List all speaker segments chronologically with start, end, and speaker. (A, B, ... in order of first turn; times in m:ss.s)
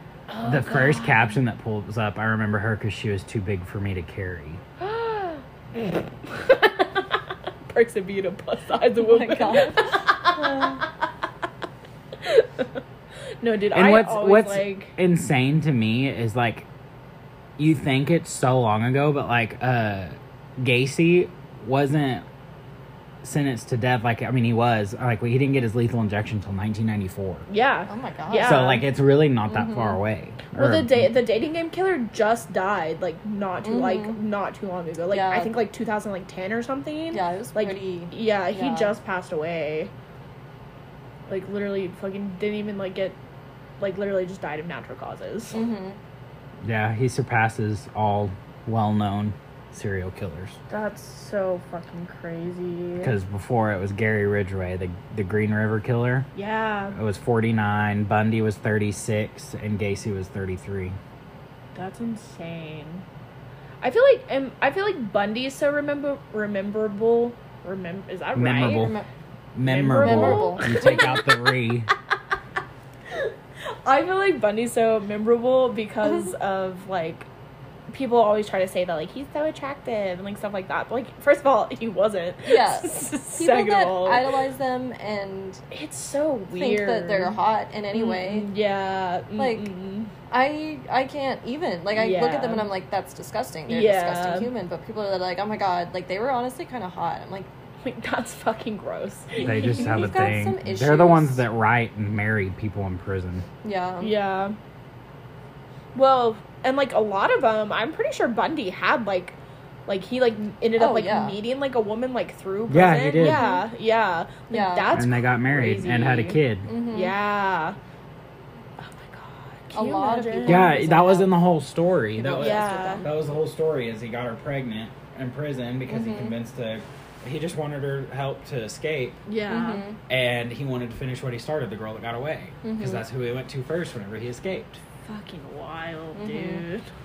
0:00.3-0:01.4 A
0:00.4-0:04.6 B
0:04.8-0:07.2 A
0:07.7-0:10.9 A
0:09.0-0:10.8 C
0:12.2-0:12.7 A
0:13.4-0:14.9 A
0:13.7-0:16.7 B
0:17.6-0:22.2 B
0:23.2-0:27.5 B
0:27.5-0:28.8 A
0:27.9-0:28.7 C
0:28.4-0:31.1 B
0:29.5-0:30.0 C
0:30.6-0:39.9 A
0:33.6-0:34.2 C
0:35.1-0:35.5 C
0:37.1-0:38.9 C
0:41.3-0:43.2 A
0:43.8-0:45.6 A
0:45.5-0:46.0 C
0:46.6-0:50.6 B
0:50.7-0:53.1 A
0:53.0-0:56.3 B
0:56.4-0:57.0 A
0:56.9-1:01.0 B
1:01.8-1:03.0 A
1:03.8-1:08.9 A
1:08.4-1:09.0 B
1:08.8-1:09.0 C
1:09.6-1:11.9 B
1:09.6-1:11.4 A
1:10.0-1:11.0 C
1:13.8-1:17.3 A
1:17.9-1:24.4 A
1:22.4-1:25.6 C
1:25.7-1:27.4 A
1:26.6-1:28.5 C
1:27.9-1:30.1 A
1:29.4-1:29.7 C
1:30.3-1:37.5 C
1:32.0-1:32.7 A
1:33.7-1:34.5 A
1:37.8-1:40.2 A
1:39.4-1:41.4 C
1:39.4-1:43.5 B
1:43.6-1:44.2 C
1:44.0-1:44.6 A
1:45.9-1:49.4 A
1:49.9-1:56.4 A
1:50.8-1:51.4 C
1:52.7-1:53.5 B
1:53.2-1:53.6 C
1:54.5-1:55.0 C
1:54.9-1:56.7 B
1:56.7-1:57.2 C
1:56.9-1:57.8 A
1:58.8-2:00.8 A
1:59.7-2:01.3 C
2:00.4-2:09.2 B
2:02.2-2:03.1 C
2:02.4-2:03.1 A
2:05.9-2:06.4 C
2:09.3-2:09.8 A
2:09.5-2:10.0 C
2:10.1-2:14.8 B
2:12.6-2:13.0 C
2:15.1-2:16.9 A
2:16.2-2:16.6 C